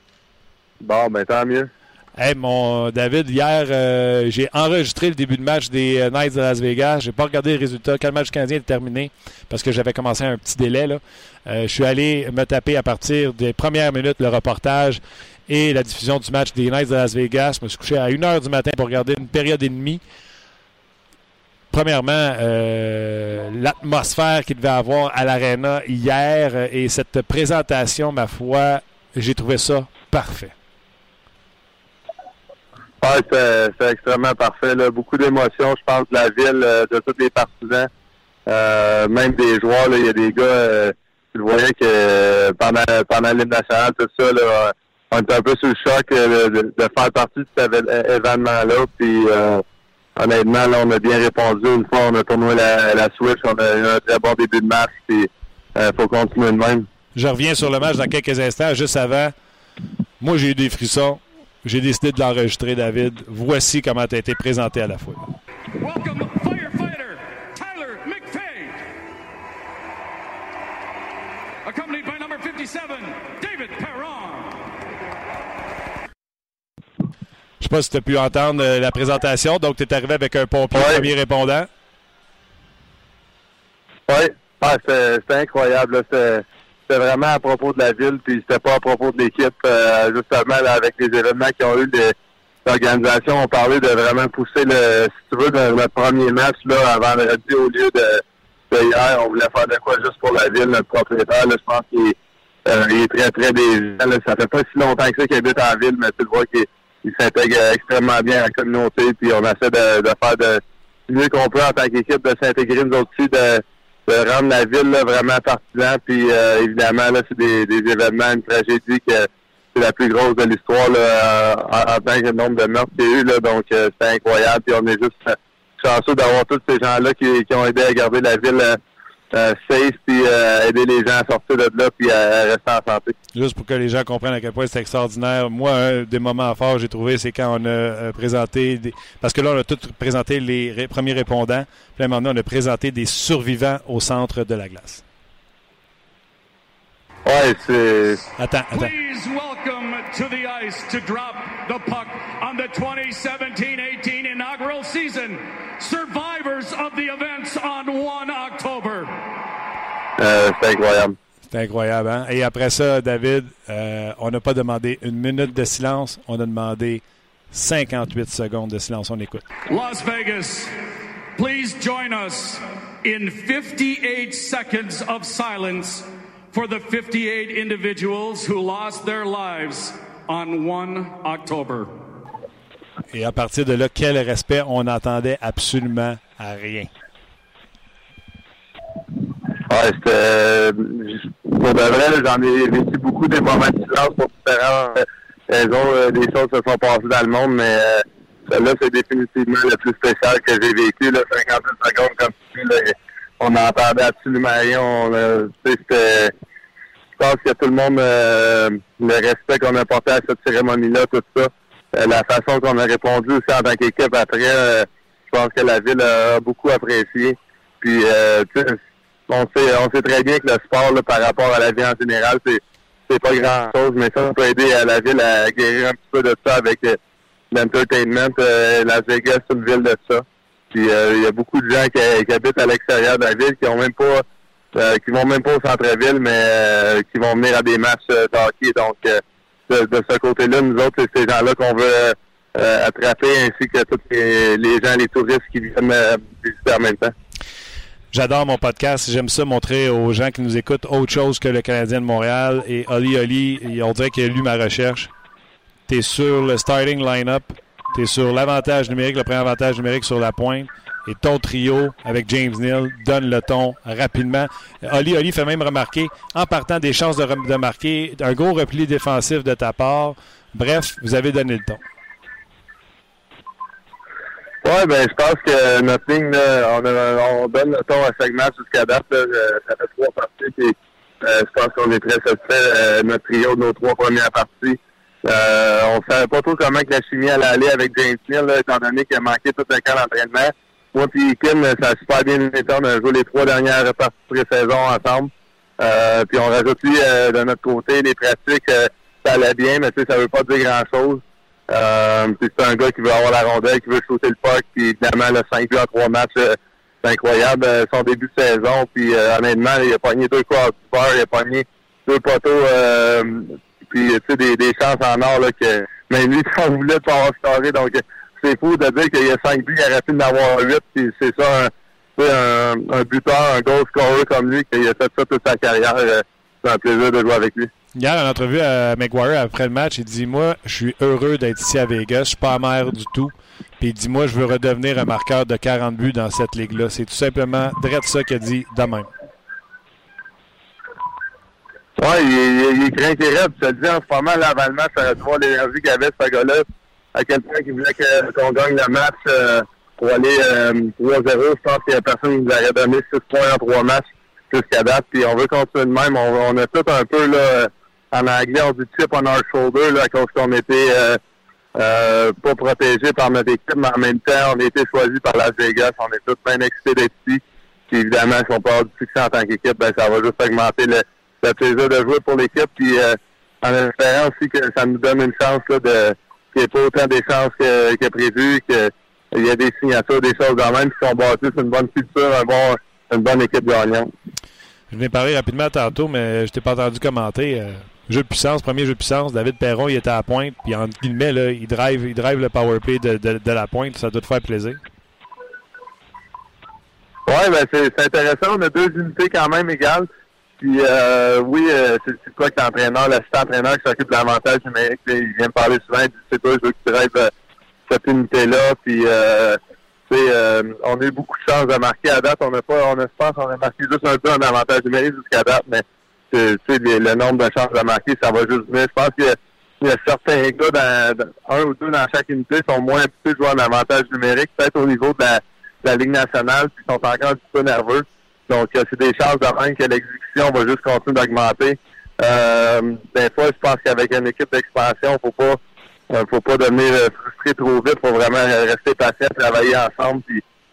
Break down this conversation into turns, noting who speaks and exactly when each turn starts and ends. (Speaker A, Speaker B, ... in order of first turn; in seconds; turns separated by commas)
Speaker A: 0.8-1.7, Speaker B: 2.2-20.0, Speaker B: 21.7-30.6, Speaker A: 33.0-37.9, Speaker A: 38.5-49.6, Speaker A: 50.2-56.9, Speaker B: 57.1-59.3, Speaker B: 60.2-65.3, Speaker C: 65.8-68.9, Speaker C: 71.7-74.7, Speaker B: 77.6-81.7, Speaker A: 80.7-81.1, Speaker A: 84.1-92.1, Speaker A: 92.7-128.8, Speaker A: 129.3-133.1, Speaker B: 133.3-145.0, Speaker A: 147.2-148.2, Speaker B: 148.4-148.9, Speaker C: 148.7-159.2, Speaker A: 160.2-161.2, Speaker B: 161.5-169.5, Speaker C: 169.7-170.8, Speaker C: 171.4-182.0, Speaker B: 183.1-186.9, Speaker A: 189.7-206.3, Speaker A: 207.2-227.0, Speaker A: 227.5-247.1, Speaker B: 248.1-255.1, Speaker B: 255.9-271.8, Speaker A: 274.6-327.7, Speaker B: 327.9-339.1, Speaker A: 342.0-361.2, Speaker A: 361.8-384.1, Speaker B: 384.9-394.8, Speaker A: 397.3-400.1, Speaker A: 400.6-407.3, Speaker A: 407.9-435.6, Speaker A: 436.1-440.4